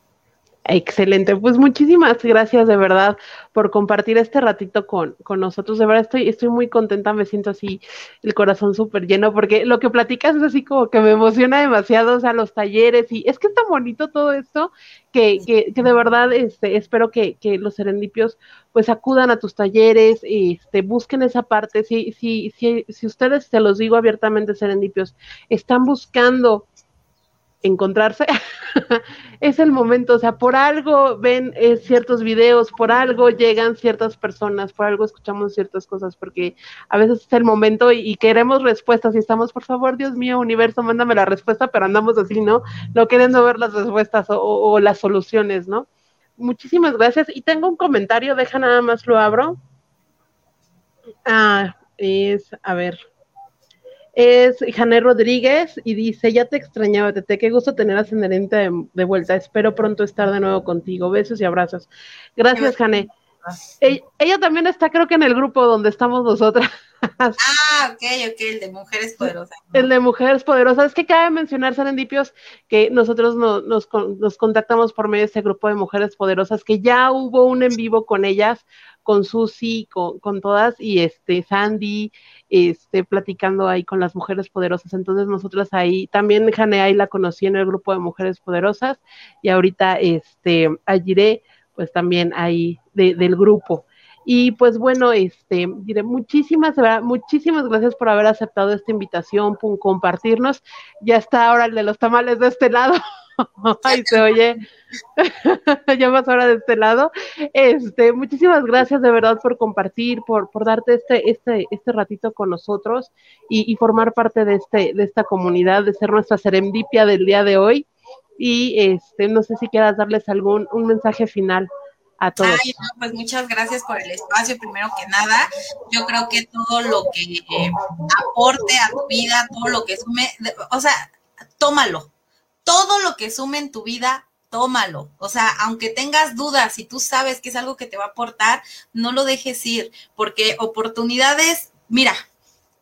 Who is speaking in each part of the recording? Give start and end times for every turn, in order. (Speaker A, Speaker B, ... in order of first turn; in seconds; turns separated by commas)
Speaker A: 0.7-26.7, Speaker A: 27.6-45.9, Speaker A: 46.4-49.6, Speaker A: 51.3-53.0, Speaker A: 54.2-63.1, Speaker A: 63.8-67.4, Speaker B: 67.4-69.9, Speaker A: 69.7-104.6, Speaker B: 103.9-104.2, Speaker A: 105.2-117.9, Speaker A: 118.4-121.7, Speaker A: 122.2-122.6, Speaker B: 122.4-132.1, Speaker B: 132.7-142.2